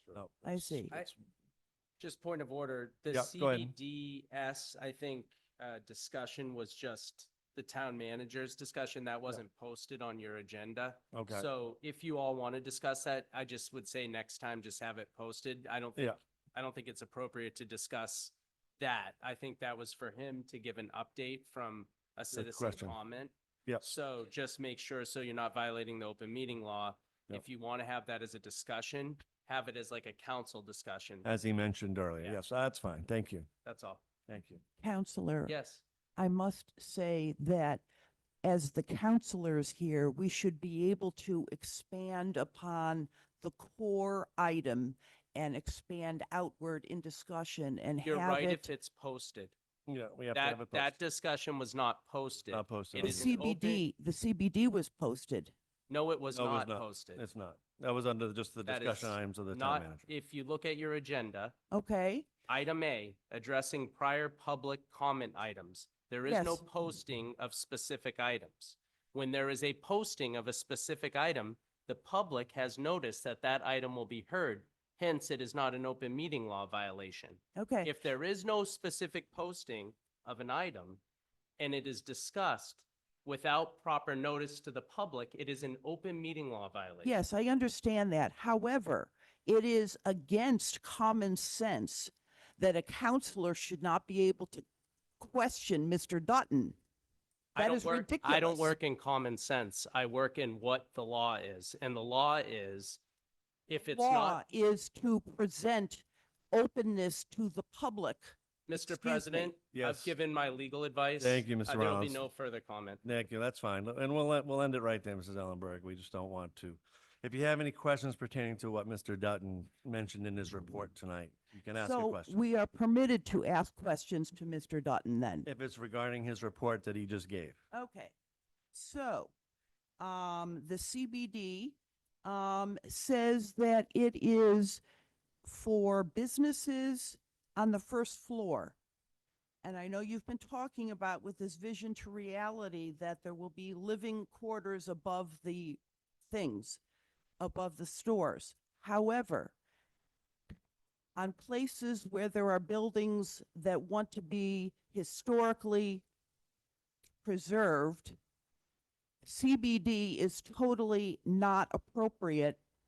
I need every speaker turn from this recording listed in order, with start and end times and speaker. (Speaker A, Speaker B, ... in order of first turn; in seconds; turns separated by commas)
Speaker A: 0.1-1.1, Speaker B: 0.4-0.9, Speaker C: 2.0-31.3, Speaker A: 3.1-3.7, Speaker A: 11.1-11.5, Speaker A: 22.3-23.0, Speaker A: 31.2-33.5, Speaker C: 33.6-34.0, Speaker A: 34.3-34.6, Speaker B: 34.8-35.5, Speaker C: 35.5-35.8, Speaker B: 36.2-37.8, Speaker B: 38.4-48.7, Speaker C: 48.0-49.5, Speaker A: 49.9-50.9, Speaker C: 50.3-53.8, Speaker A: 52.5-53.4, Speaker B: 53.0-55.5, Speaker C: 55.9-57.2, Speaker A: 56.3-60.1, Speaker C: 58.7-61.6, Speaker B: 61.7-62.3, Speaker C: 62.5-81.0, Speaker B: 66.3-66.6, Speaker B: 77.6-77.9, Speaker C: 81.6-87.2, Speaker B: 87.0-94.7, Speaker B: 95.2-96.8, Speaker C: 97.5-103.0, Speaker B: 97.6-98.8, Speaker C: 103.7-104.4, Speaker B: 103.8-109.5, Speaker C: 108.7-113.0, Speaker A: 109.7-110.1, Speaker A: 111.2-112.2, Speaker A: 113.0-122.4, Speaker B: 121.8-125.5, Speaker A: 125.5-127.6, Speaker B: 127.7-128.1, Speaker B: 128.7-129.3, Speaker B: 130.0-134.8, Speaker B: 135.4-138.8, Speaker B: 139.6-146.8, Speaker B: 147.4-149.6, Speaker B: 151.2-156.1, Speaker B: 157.2-158.2, Speaker B: 159.2-162.6